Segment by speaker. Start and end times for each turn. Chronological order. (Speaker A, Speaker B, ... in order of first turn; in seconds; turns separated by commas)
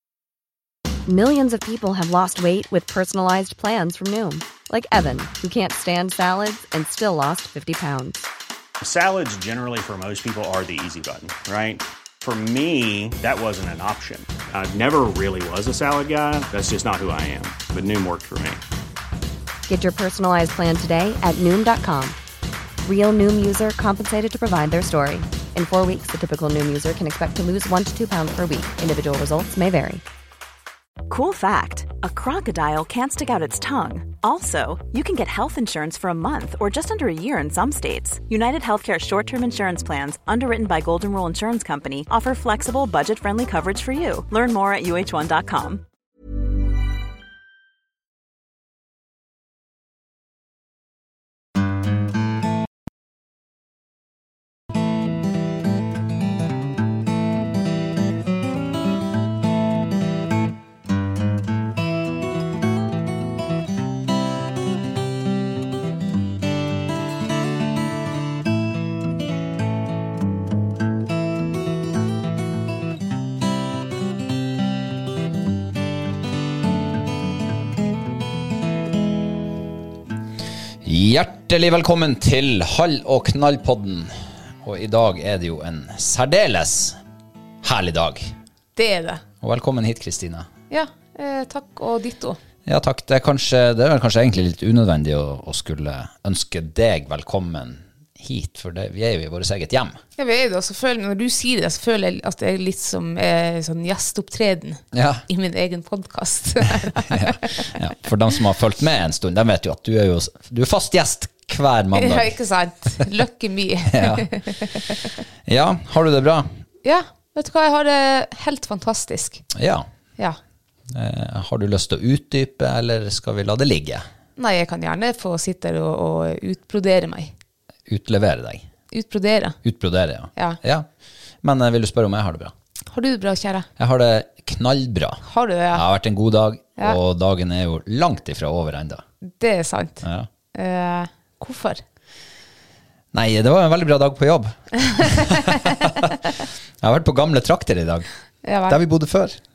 Speaker A: 1.1-8.3, Speaker B: 8.8-18.6, Speaker A: 19.7-22.2, Speaker A: 22.9-30.0, Speaker C: 31.1-45.8, Speaker D: 80.8-87.0, Speaker D: 87.6-88.4, Speaker E: 88.8-89.2, Speaker D: 89.4-90.5, Speaker E: 90.7-92.4, Speaker D: 92.7-100.0, Speaker E: 100.2-107.7, Speaker D: 104.9-105.2, Speaker D: 107.1-112.4, Speaker E: 111.9-115.2, Speaker D: 113.9-114.8, Speaker D: 115.5-116.5, Speaker E: 116.8-119.4, Speaker D: 119.5-119.9, Speaker D: 120.9-124.1, Speaker E: 124.4-127.3, Speaker D: 127.9-128.7, Speaker E: 128.9-129.6, Speaker D: 129.6-130.9, Speaker D: 131.4-132.5, Speaker E: 132.9-133.7, Speaker D: 133.8-139.0, Speaker E: 135.2-135.8, Speaker E: 139.3-141.8, Speaker D: 140.0-140.3, Speaker D: 143.1-148.1, Speaker E: 145.1-146.0, Speaker E: 148.4-148.8, Speaker D: 148.7-149.4